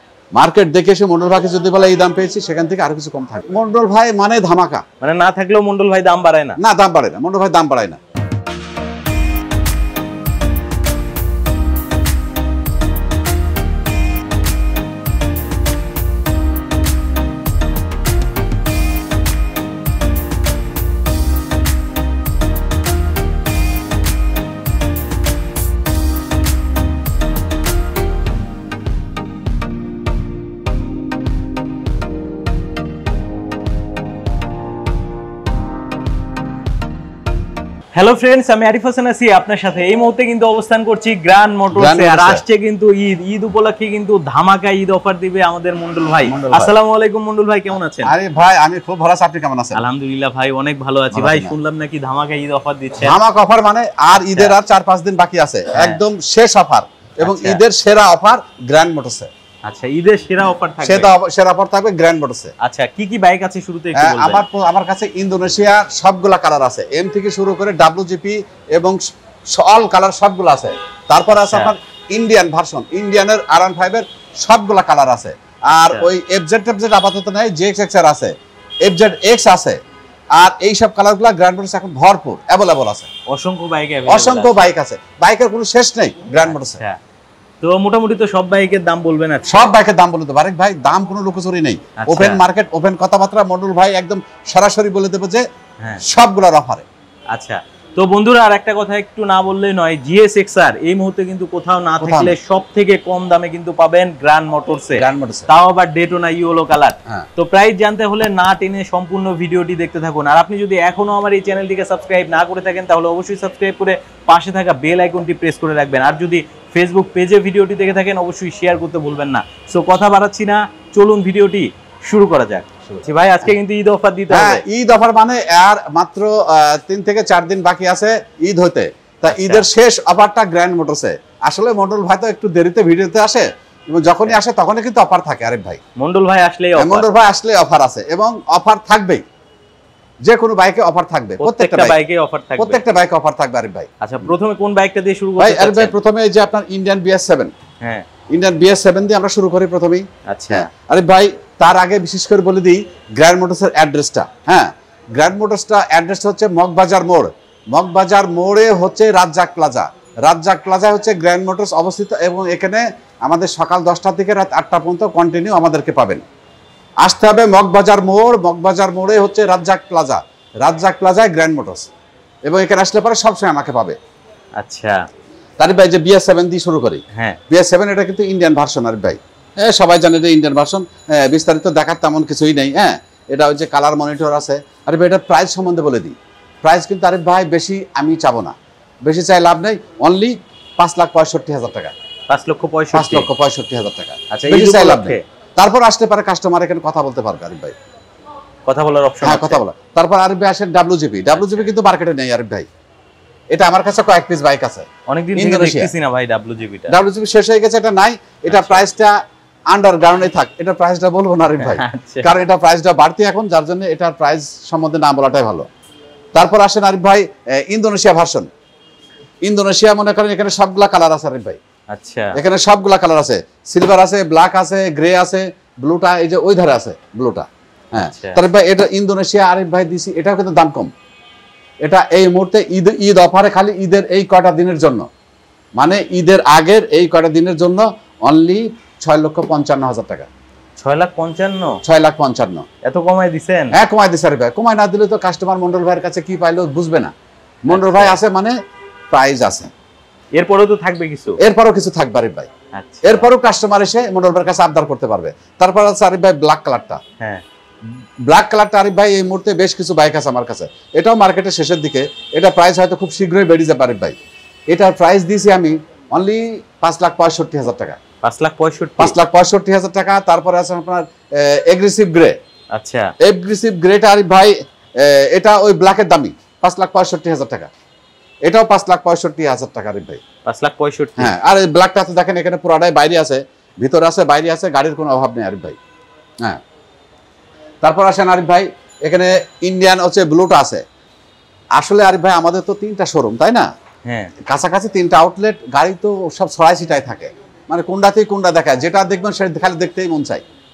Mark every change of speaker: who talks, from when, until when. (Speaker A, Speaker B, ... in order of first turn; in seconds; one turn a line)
Speaker A: 0.3-4.8
Speaker B: 5.0-6.6
Speaker A: 6.6-8.0
Speaker B: 37.9-48.1
Speaker A: 41.7-42.4
Speaker A: 46.3-46.7
Speaker A: 48.0-49.8
Speaker B: 49.7-53.2
Speaker A: 51.1-51.5
Speaker A: 53.0-59.3
Speaker B: 54.1-54.6
Speaker B: 55.7-56.0
Speaker B: 57.2-57.6
Speaker B: 59.6-61.1
Speaker A: 60.8-62.5
Speaker B: 62.6-64.4
Speaker A: 64.0-78.3
Speaker B: 71.3-71.7
Speaker B: 75.7-76.1
Speaker A: 78.8-79.8
Speaker A: 80.4-83.1
Speaker B: 83.3-84.7
Speaker A: 84.1-86.8
Speaker B: 86.4-87.0
Speaker B: 87.6-89.7
Speaker A: 89.5-95.4
Speaker B: 92.0-92.4
Speaker A: 96.0-96.9
Speaker B: 97.3-124.6
Speaker A: 102.0-102.4
Speaker A: 105.0-105.5
Speaker A: 124.3-135.8
Speaker B: 129.3-129.7
Speaker B: 134.1-134.4
Speaker B: 136.0-137.1
Speaker A: 136.8-139.2
Speaker A: 140.2-142.0
Speaker B: 141.4-142.8
Speaker A: 142.6-143.9
Speaker B: 144.0-145.9
Speaker A: 145.4-147.5
Speaker B: 147.8-148.1
Speaker A: 148.3-166.2
Speaker B: 150.3-150.7
Speaker A: 167.0-171.9
Speaker A: 172.5-174.0
Speaker B: 174.6-175.0
Speaker A: 175.6-191.9
Speaker B: 177.1-177.4
Speaker B: 192.3-193.3
Speaker A: 192.9-197.8
Speaker B: 194.3-195.2
Speaker B: 198.7-199.6
Speaker A: 199.2-202.7
Speaker B: 201.3-201.7
Speaker A: 203.5-205.9
Speaker B: 205.1-206.9
Speaker A: 206.9-209.2
Speaker B: 208.5-208.9
Speaker A: 209.7-215.7
Speaker B: 211.6-212.3
Speaker A: 216.3-218.5
Speaker A: 219.4-221.6
Speaker B: 221.9-222.4
Speaker A: 222.3-230.9
Speaker B: 227.9-228.4
Speaker A: 231.8-235.1
Speaker A: 235.8-240.3
Speaker B: 240.8-241.8
Speaker A: 241.8-242.7
Speaker B: 242.8-243.8
Speaker A: 243.7-247.1
Speaker A: 247.7-248.5
Speaker B: 247.7-248.2
Speaker A: 249.1-249.7
Speaker B: 250.3-251.4
Speaker A: 251.4-252.5
Speaker B: 252.7-253.3
Speaker A: 253.0-257.0
Speaker A: 258.3-264.1
Speaker A: 264.7-268.0
Speaker B: 268.2-269.2
Speaker A: 269.0-272.4
Speaker B: 272.7-273.1
Speaker A: 273.2-277.7
Speaker A: 278.4-280.2
Speaker B: 280.4-281.3
Speaker A: 281.2-285.8
Speaker A: 287.8-290.8
Speaker A: 291.8-293.7
Speaker B: 294.1-294.3
Speaker A: 294.4-300.4